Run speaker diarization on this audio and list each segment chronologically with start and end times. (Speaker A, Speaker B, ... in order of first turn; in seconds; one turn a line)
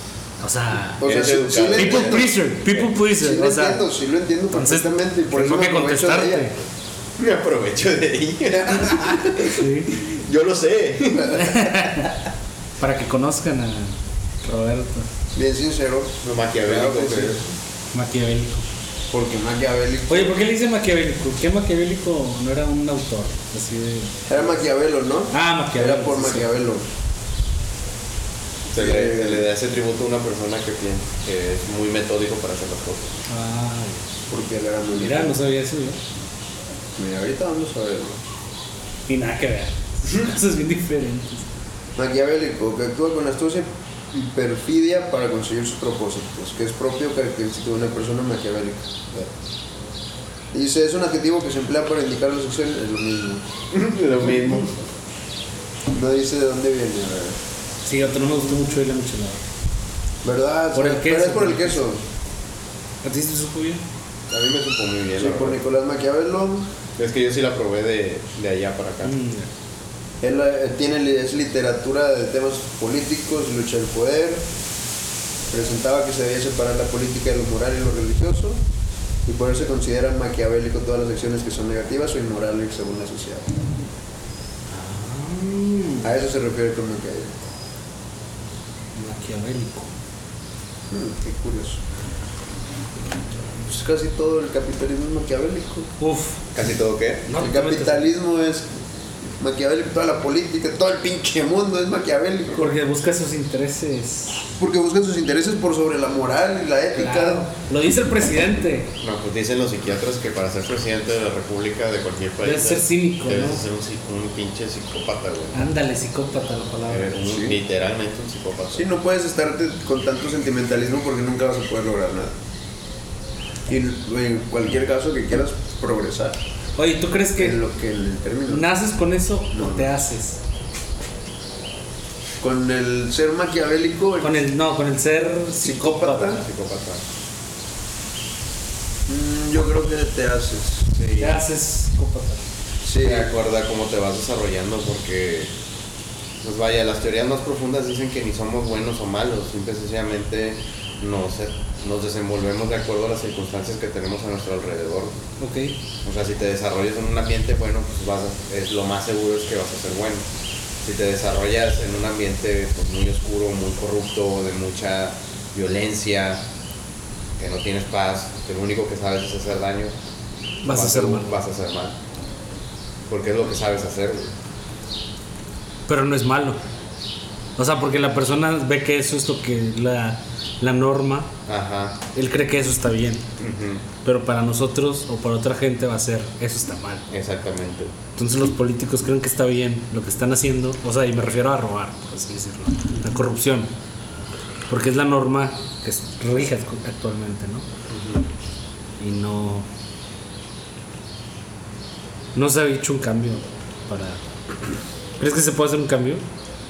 Speaker A: 0.4-1.0
Speaker B: 1.0-6.5
Speaker C: 1.0-2.3
Speaker A: 1.7-3.9
Speaker A: 4.5-6.5
Speaker C: 7.2-12.1
Speaker B: 8.8-9.3
Speaker A: 9.4-9.9
Speaker A: 11.3-12.1
Speaker A: 12.8-15.1
Speaker B: 15.3-17.5
Speaker C: 16.2-17.4
Speaker A: 17.9-18.6
Speaker B: 19.1-20.3
Speaker A: 20.1-24.5
Speaker B: 24.3-26.9
Speaker A: 25.3-26.5
Speaker C: 28.7-33.1
Speaker B: 28.8-29.4
Speaker A: 33.3-34.0
Speaker B: 34.3-35.4
Speaker A: 35.0-36.0
Speaker B: 37.0-38.2
Speaker A: 39.1-41.5
Speaker B: 42.0-49.3
Speaker B: 50.5-53.5
Speaker C: 53.7-54.7
Speaker B: 55.9-57.4
Speaker A: 57.9-59.4
Speaker B: 60.2-62.0
Speaker A: 60.7-61.8
Speaker A: 63.0-63.8
Speaker C: 64.3-65.6
Speaker B: 65.2-66.7
Speaker C: 67.0-69.1
Speaker A: 69.0-69.5
Speaker B: 70.2-74.5
Speaker B: 75.5-78.6
Speaker B: 79.2-83.5
Speaker A: 84.7-86.1
Speaker B: 86.0-87.4
Speaker A: 88.9-89.9
Speaker B: 90.9-91.8
Speaker B: 93.6-95.9
Speaker A: 96.0-96.4
Speaker C: 96.5-97.2
Speaker A: 97.2-98.1
Speaker B: 97.4-98.7
Speaker B: 99.4-102.7
Speaker A: 102.5-104.4
Speaker B: 104.6-107.5
Speaker A: 106.9-108.9
Speaker C: 109.0-115.6
Speaker A: 112.4-113.6
Speaker A: 115.5-117.2
Speaker C: 116.9-118.9
Speaker B: 117.2-117.6
Speaker B: 118.7-122.3
Speaker B: 123.7-126.4
Speaker A: 126.8-127.6
Speaker B: 127.4-128.7
Speaker A: 128.5-130.4
Speaker B: 129.5-129.8
Speaker B: 132.4-134.4
Speaker A: 134.2-136.4
Speaker B: 135.6-136.4
Speaker C: 136.2-137.0
Speaker B: 139.1-140.9
Speaker C: 140.9-141.4
Speaker A: 141.2-142.4
Speaker B: 142.8-143.3
Speaker C: 143.0-145.5
Speaker C: 146.4-155.2
Speaker A: 155.4-155.7
Speaker C: 156.0-160.2
Speaker C: 160.8-166.4
Speaker C: 167.4-169.9
Speaker C: 170.6-171.9
Speaker A: 170.6-171.4
Speaker C: 173.1-174.3
Speaker A: 175.9-176.6
Speaker A: 177.6-181.3
Speaker C: 181.5-182.0
Speaker A: 182.1-183.2
Speaker C: 183.4-183.8
Speaker A: 184.0-187.0
Speaker C: 187.1-187.9
Speaker A: 188.2-193.7
Speaker A: 194.7-197.6
Speaker C: 197.9-198.2
Speaker A: 199.0-199.7
Speaker A: 202.3-204.2
Speaker A: 205.2-206.2